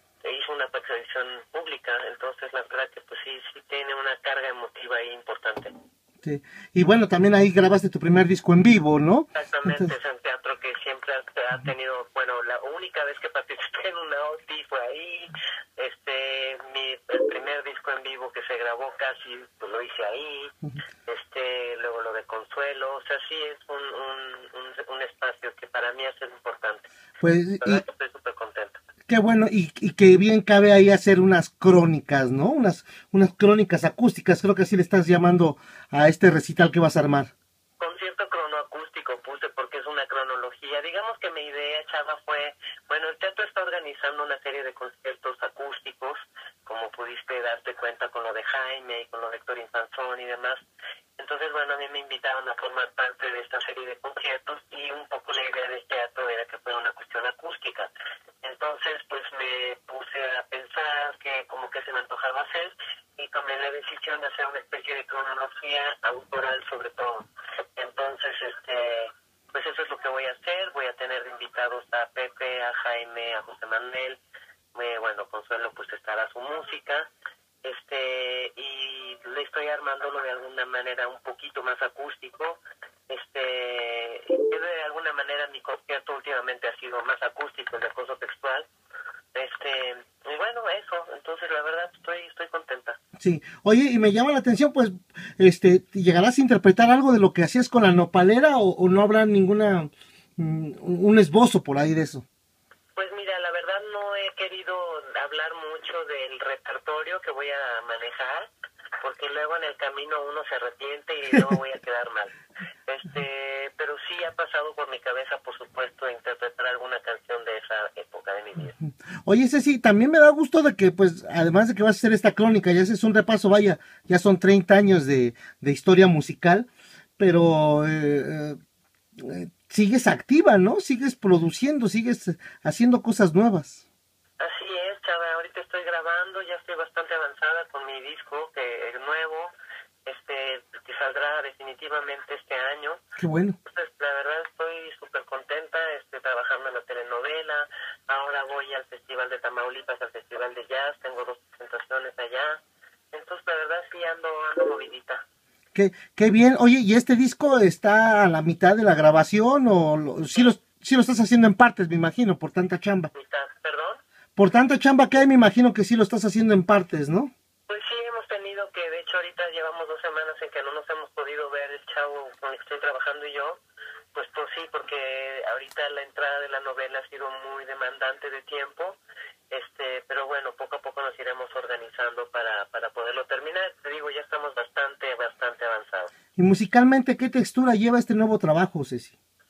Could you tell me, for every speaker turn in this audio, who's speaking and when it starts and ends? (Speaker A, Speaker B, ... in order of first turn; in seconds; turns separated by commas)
Speaker A: 0.2-5.7, Speaker B: 6.2-9.9, Speaker A: 9.3-20.5, Speaker A: 21.1-26.9, Speaker B: 27.2-27.8, Speaker A: 27.6-28.8, Speaker B: 29.1-37.3, Speaker A: 37.8-50.6, Speaker A: 51.2-57.9, Speaker A: 58.4-74.2, Speaker A: 74.7-77.1, Speaker A: 77.6-88.7, Speaker A: 89.3-93.0, Speaker B: 93.2-102.2, Speaker A: 103.0-108.5, Speaker A: 109.0-112.3, Speaker A: 112.9-118.8, Speaker B: 118.8-126.7, Speaker B: 127.2-128.6, Speaker B: 129.2-133.8, Speaker A: 134.4-139.5, Speaker A: 140.1-143.0, Speaker B: 143.2-143.6, Speaker A: 143.6-152.6, Speaker A: 153.1-155.2, Speaker B: 155.7-163.1, Speaker A: 163.1-164.0, Speaker B: 164.4-167.3, Speaker A: 167.7-173.6, Speaker A: 174.1-179.0, Speaker A: 179.5-186.1, Speaker B: 186.4-189.1